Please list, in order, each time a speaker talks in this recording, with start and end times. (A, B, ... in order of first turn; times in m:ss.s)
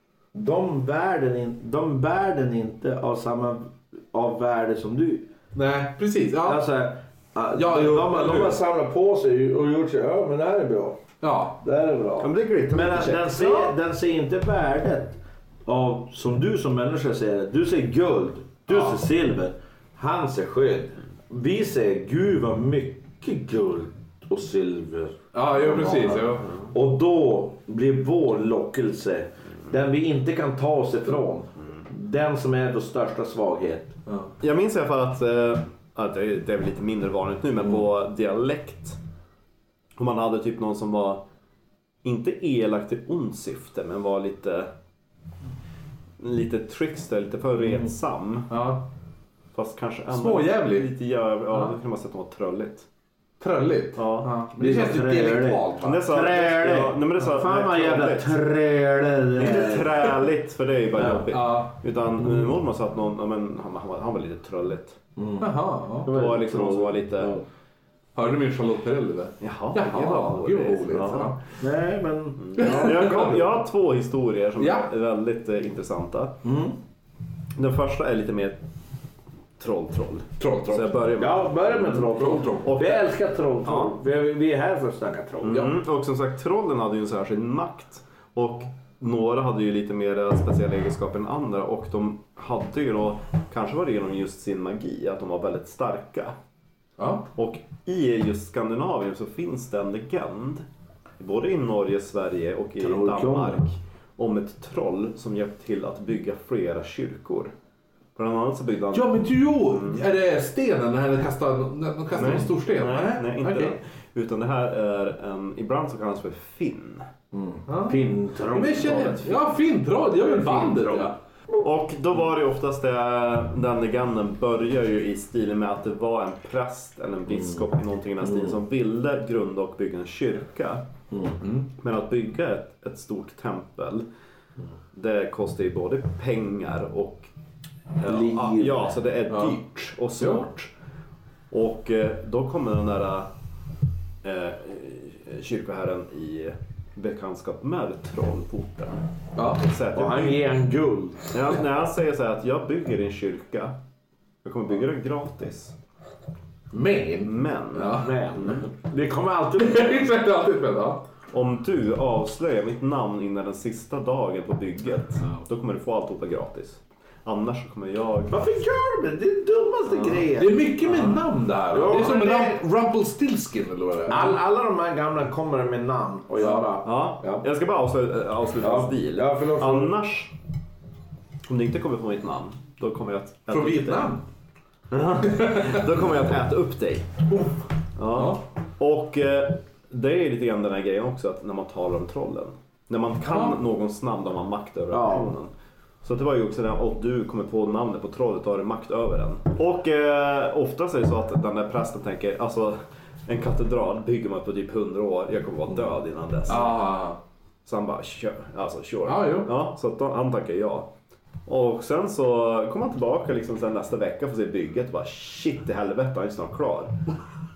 0:00.3-0:05.3 A
0:05.5-0:06.6 B
0:06.4-0:11.0 A
0:07.6-0:08.6 B
0:11.2-0:11.6 B
0:11.6-0:34.0 A
0:12.2-0:13.6 C
0:18.7-0:19.0 B
0:25.3-0:26.5 B
0:34.1-0:34.3 B
0:34.4-0:39.0 C
0:40.0-0:41.2 C
0:42.0-0:44.7 C
0:46.2-0:48.6 C
0:48.5-0:48.8 B
0:49.5-0:52.9 C
0:50.1-0:50.9 B
0:51.5-0:51.7 B
0:53.4-0:56.2 B
0:54.0-0:54.3 C
0:54.5-1:00.2 A
0:55.8-0:58.4 C
0:59.4-1:05.0 C
1:01.0-1:01.2 A
1:01.3-1:01.7 B
1:05.2-1:07.4 A
1:05.4-1:06.1 B
1:06.1-1:07.4 C
1:08.1-1:11.4 B
1:09.4-1:11.3 C
1:11.6-1:13.3 A
1:12.4-1:16.4 C
1:12.6-1:13.4 B
1:14.6-1:14.9 B
1:16.4-1:16.8 A
1:17.6-1:18.6 C
1:19.6-1:23.0 C
1:20.4-1:21.0 B
1:21.2-1:25.7 A
1:22.1-1:22.9 B
1:23.6-1:24.0 C
1:25.4-1:36.3 C
1:37.0-1:37.3 B
1:37.3-1:40.6 C
1:41.2-1:47.5 C
1:42.8-1:43.6 A
1:48.2-1:50.0 C
1:48.9-1:53.7 B
1:52.1-1:57.0 C
1:57.3-1:59.3 A
1:57.7-2:01.1 B
1:58.8-1:59.4 C
2:00.2-2:01.1 A
2:01.6-2:10.8 C
2:11.1-2:11.4 A
2:11.4-2:11.7 B
2:11.7-2:14.0 C
2:14.9-2:17.3 C
2:18.0-2:20.7 C
2:18.0-2:19.0 A
2:19.3-2:19.6 B
2:20.2-2:20.5 B
2:21.5-2:23.3 C
2:24.2-2:30.5 C
2:29.4-2:29.6 B
2:29.9-2:31.4 A
2:31.3-2:33.8 C
2:34.4-2:35.7 C
2:36.7-2:38.2 B
2:37.2-2:38.6 C
2:37.8-2:40.1 A
2:39.6-2:41.0 B
2:41.3-2:48.4 C
2:48.3-2:51.2 A
2:50.2-2:54.4 B
2:51.7-2:52.6 A
2:54.1-2:57.4 A
2:56.4-2:56.7 B
2:56.8-3:00.3 C
2:58.6-3:00.0 A
3:01.4-3:04.1 C
3:03.5-3:04.2 B
3:04.9-3:07.2 C
3:05.3-3:05.8 B
3:07.3-3:07.6 B
3:08.0-3:15.5 C
3:08.1-3:08.4 B
3:13.3-3:13.6 B
3:14.9-3:15.3 A
3:16.0-3:26.8 C
3:26.5-3:27.2 B
3:27.6-3:30.9 C
3:29.0-3:29.5 B
3:31.4-3:36.9 C